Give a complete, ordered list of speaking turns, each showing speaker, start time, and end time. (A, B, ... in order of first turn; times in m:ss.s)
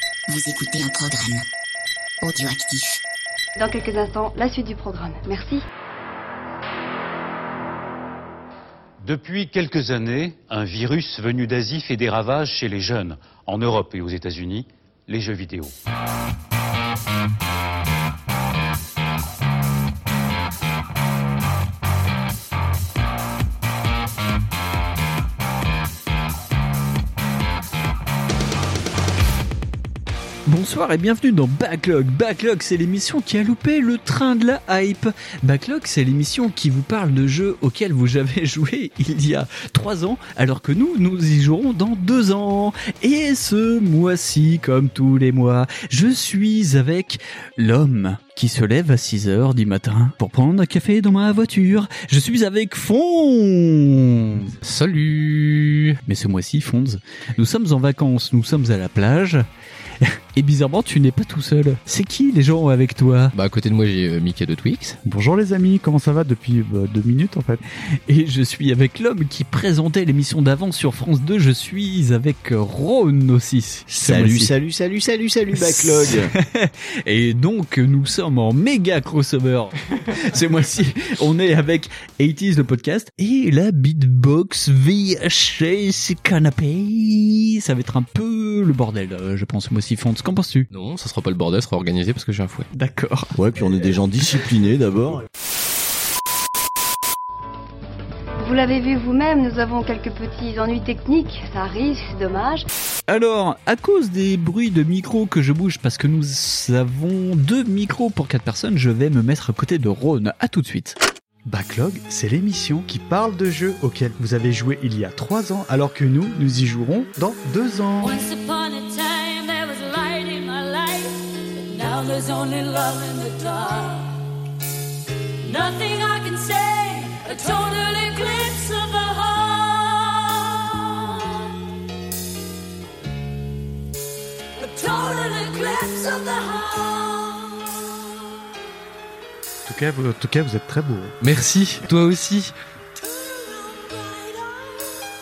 0:00.3-0:01.5 A
0:02.2-0:03.0 A
0:03.6-0:05.6 B
0:09.0-0:15.7 C
0:30.5-0:54.5 D
0:54.6-0:56.0 E
0:56.1-0:59.5 D
1:00.0-1:03.3 D
1:03.3-1:05.0 E
1:05.0-1:07.6 F
1:08.1-1:14.5 D
1:13.9-1:16.3 G
1:15.6-1:30.7 D
1:30.7-1:32.7 E
1:32.7-1:33.3 D
1:33.4-1:35.2 G
1:38.4-1:42.7 B
1:43.1-1:51.0 D
1:51.5-1:58.2 F
1:58.0-2:04.1 H
2:05.4-2:11.5 H
2:14.6-2:17.7 H
2:19.7-2:21.2 F
2:21.2-2:22.5 E
2:23.2-2:24.7 H